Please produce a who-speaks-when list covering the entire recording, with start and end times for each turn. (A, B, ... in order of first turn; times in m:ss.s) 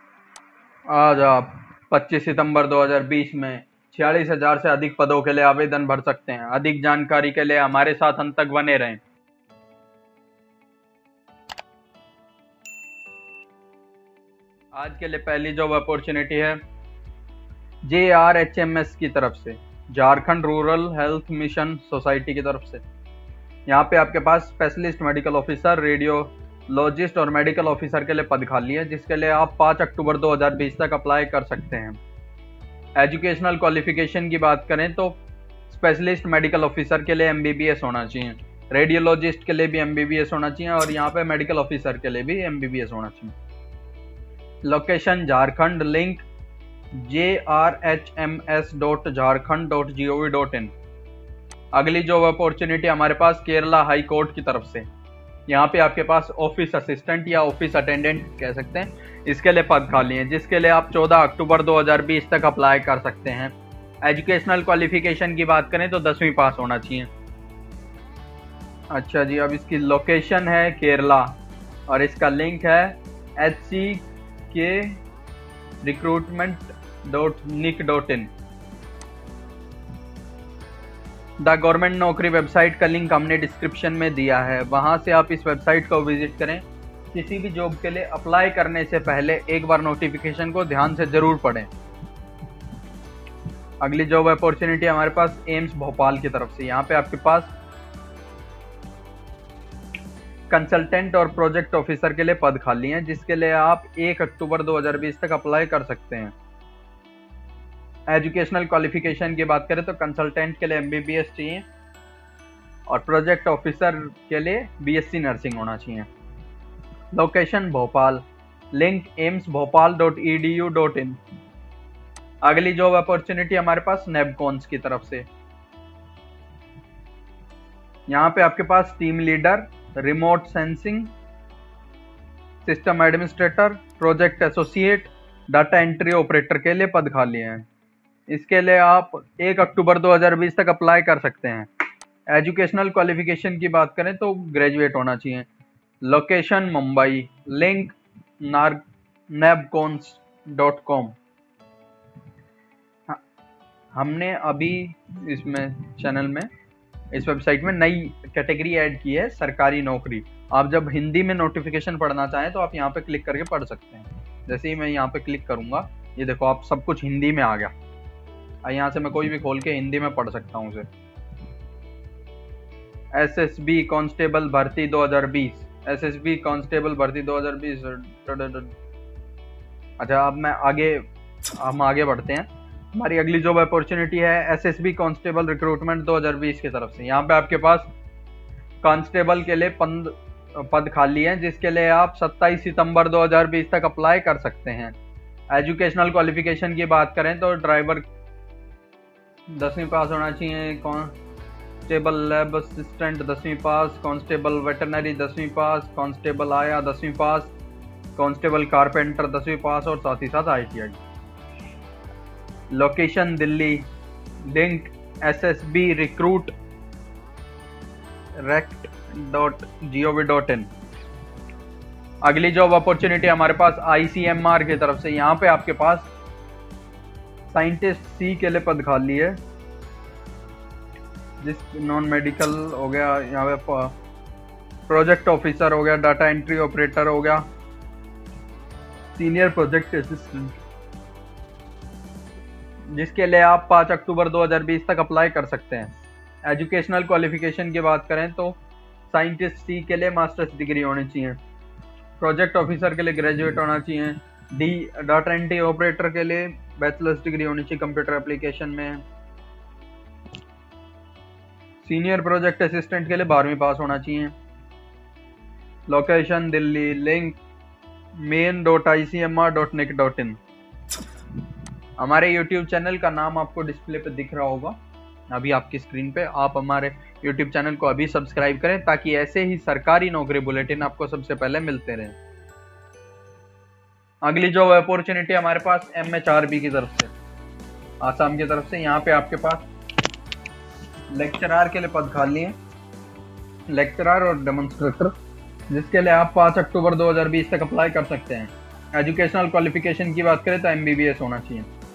0:00.9-0:09.0 A
0:14.7-0:16.6 A
0:17.8-0:22.8 A
0:23.7-0:32.0 A
0:33.0-0:43.3 A
0:44.6-0:46.2 A
0:47.0-0:50.7 A
0:51.7-0:54.9 A
0:55.5-1:07.1 A
1:08.9-1:11.4 A
1:11.9-1:15.0 A
1:15.8-1:18.3 A
1:21.4-1:31.7 A
1:33.8-1:37.5 A
1:40.5-1:46.3 A
1:48.1-1:51.6 A
1:52.9-1:56.1 A
1:57.1-2:01.2 A
2:02.4-2:05.3 A
2:08.1-2:11.1 A
2:12.6-2:17.7 A
2:18.3-2:21.7 A
2:22.3-2:25.5 A
2:26.0-2:31.2 A
2:33.9-2:36.5 A
2:37.1-2:47.7 A
2:48.6-2:50.9 A
2:53.1-2:58.7 A
3:00.0-3:07.9 A
3:08.8-3:15.0 A
3:15.5-3:18.0 A
3:19.5-3:21.1 A
3:21.9-3:27.5 A
3:28.2-3:31.0 A
3:32.7-3:33.8 A
3:34.4-3:36.5 A
3:38.4-3:40.7 A
3:42.2-3:46.1 A
3:47.5-3:49.4 A
3:51.4-3:53.9 A
3:54.9-3:57.4 A
3:59.2-4:00.6 A
4:02.9-4:05.9 A
4:06.4-4:08.6 A
4:09.1-4:11.4 A
4:12.2-4:19.0 A
4:21.8-4:24.3 A
4:25.9-4:27.4 A
4:28.2-4:30.4 A
4:32.0-4:34.8 A
4:35.3-4:42.2 A
4:44.2-4:47.1 A
4:48.0-4:49.6 A
4:51.1-4:52.5 A
4:53.7-4:55.1 A
4:55.7-5:01.7 A